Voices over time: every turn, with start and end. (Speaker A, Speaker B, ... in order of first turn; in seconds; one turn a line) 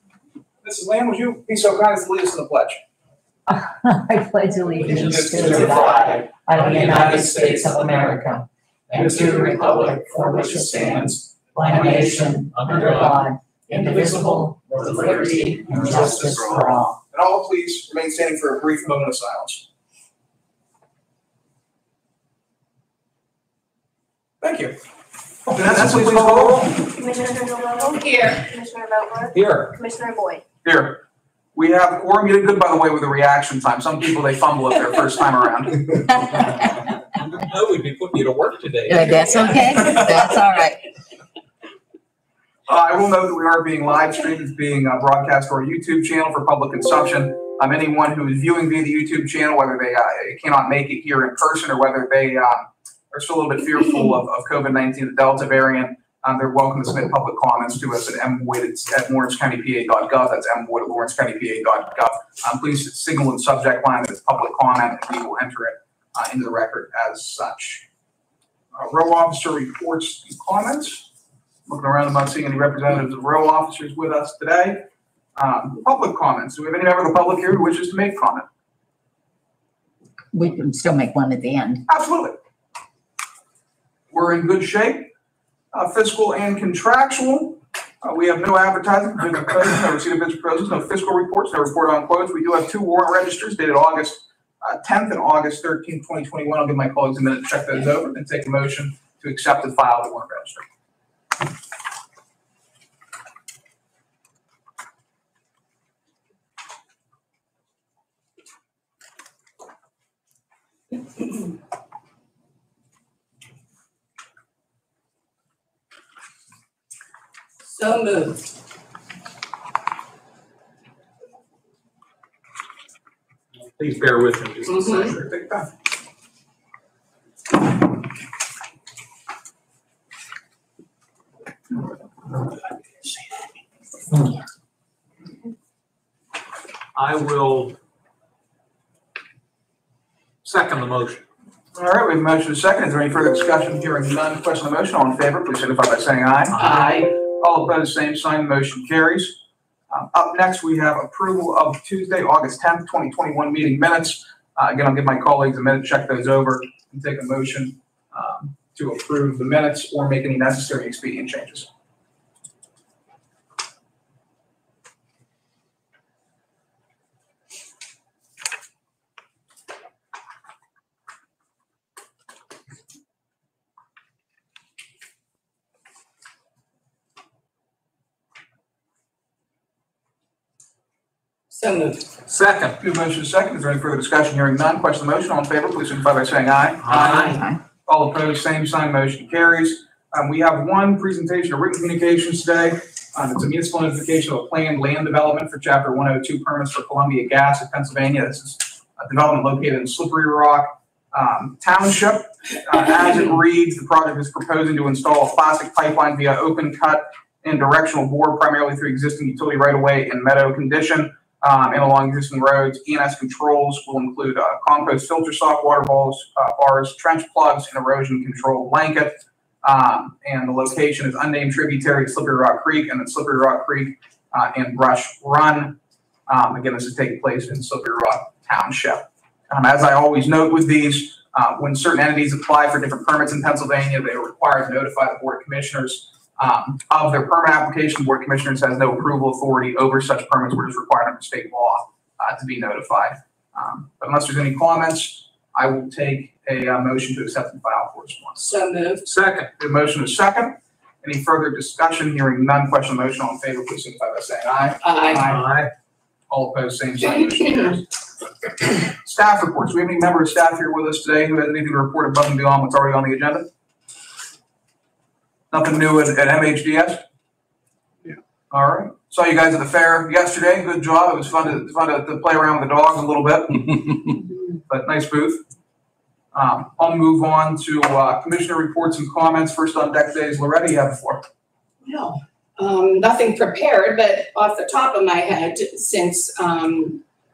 Speaker A: 0.6-2.8
Speaker B: 3.5-17.0
Speaker C: 4.8-7.2
Speaker A: 5.0-6.0
Speaker D: 5.0-7.9
Speaker D: 8.9-11.1
Speaker D: 11.7-12.4
Speaker C: 11.7-16.7
Speaker D: 14.8-16.4
Speaker A: 15.8-16.4
Speaker A: 17.1-19.7
Speaker A: 24.4-24.8
Speaker C: 25.5-26.8
Speaker A: 25.5-26.7
Speaker E: 26.7-30.4
Speaker D: 28.0-28.4
Speaker C: 29.3-29.8
Speaker A: 30.6-31.0
Speaker A: 31.6-36.0
Speaker C: 37.3-40.0
Speaker B: 38.9-40.8
Speaker A: 42.7-67.9
Speaker A: 68.8-71.1
Speaker A: 71.7-74.8
Speaker A: 75.4-78.5
Speaker B: 80.3-81.8
Speaker A: 81.9-82.3
Speaker A: 84.1-85.1
Speaker A: 85.7-100.6
Speaker D: 117.7-118.5
Speaker C: 123.8-125.2
Speaker D: 124.7-125.1
Speaker A: 124.9-125.7
Speaker C: 136.9-137.8
Speaker C: 140.4-141.3
Speaker A: 141.8-149.4
Speaker C: 146.5-147.1
Speaker D: 146.6-147.1
Speaker A: 149.9-161.7
Speaker D: 181.5-182.1
Speaker C: 182.3-182.8
Speaker A: 182.8-187.2
Speaker C: 186.8-187.4
Speaker D: 186.9-187.5
Speaker A: 187.9-248.4
Speaker D: 248.4-249.1
Speaker C: 249.0-249.5
Speaker A: 249.6-255.4
Speaker D: 254.8-255.3
Speaker C: 255.2-255.7
Speaker A: 256.3-257.9
Speaker D: 257.0-257.8
Speaker A: 258.9-263.5
Speaker A: 265.5-267.0
Speaker A: 268.1-274.0
Speaker A: 274.7-275.4
Speaker A: 276.3-281.2
Speaker D: 281.8-287.0